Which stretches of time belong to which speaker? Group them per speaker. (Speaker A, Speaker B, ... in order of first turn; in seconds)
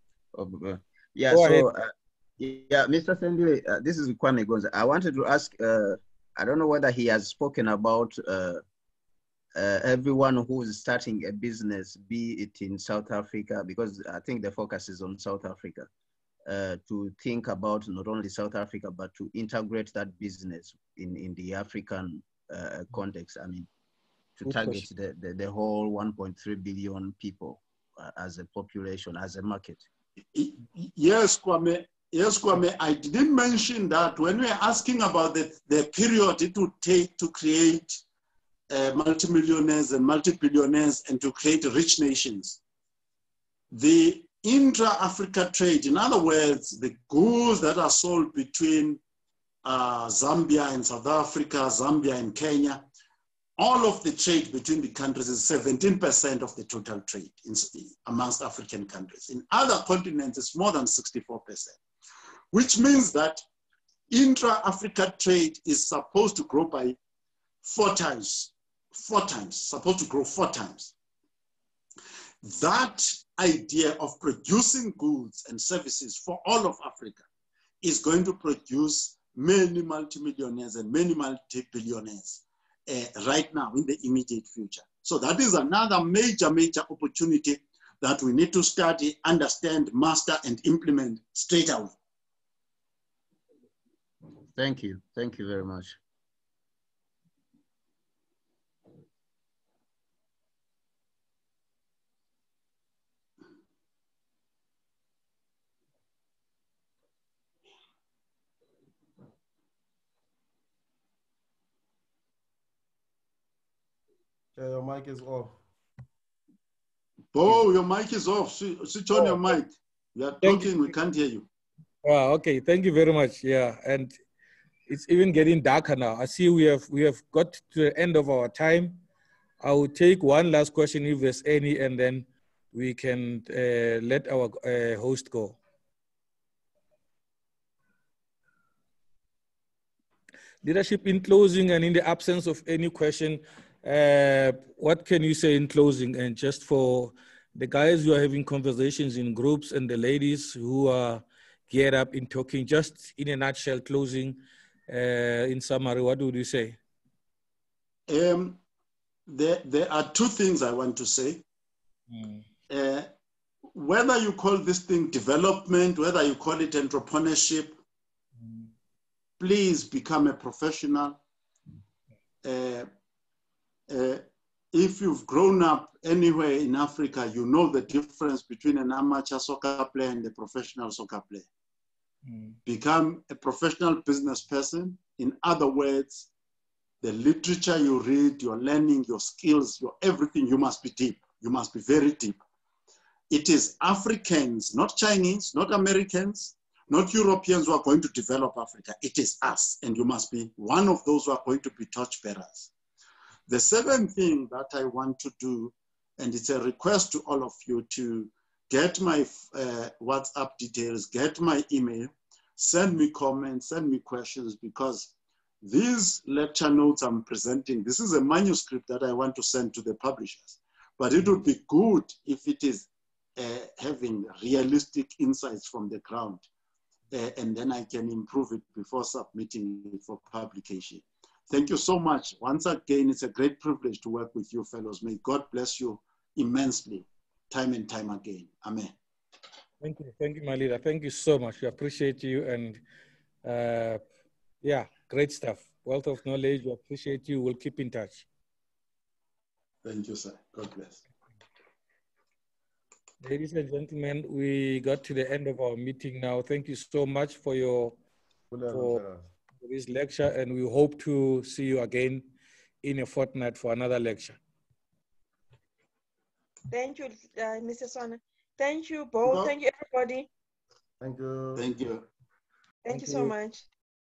Speaker A: 0.3-8.6, 9.6-15.9, 16.4-23.7, 24.4-29.9, 94.5-96.0
Speaker B: 1.3-1.7, 24.4-24.8, 120.4-120.8, 122.0-124.2, 124.9-129.0, 129.6-135.6, 140.6-156.8, 162.1-162.4, 182.3-182.5, 239.8-242.8, 243.4-244.0, 244.6-248.2, 253.2-257.9, 258.7-259.0, 259.6-262.2, 262.8-264.4
Speaker C: 30.3-38.0, 38.7-42.6, 43.7-49.0, 49.6-52.9, 53.6-61.8, 62.5-63.4, 64.1-67.0, 67.6-70.9, 72.4-77.2, 77.8-92.0, 117.3-121.5, 158.1-158.6, 159.3-161.4, 162.7-163.1, 163.7-167.8, 169.4-171.2, 172.4-172.9, 173.9-181.5, 182.6-186.3, 187.0-192.4, 193.3-202.7, 203.5-215.1, 215.6-226.4, 227.1-238.9, 249.8-251.0, 269.2-269.5, 271.5-272.0
Speaker D: 114.6-115.6, 119.1-119.6, 258.5-259.3, 271.0-271.7
Speaker E: 266.7-270.3, 272.8-273.6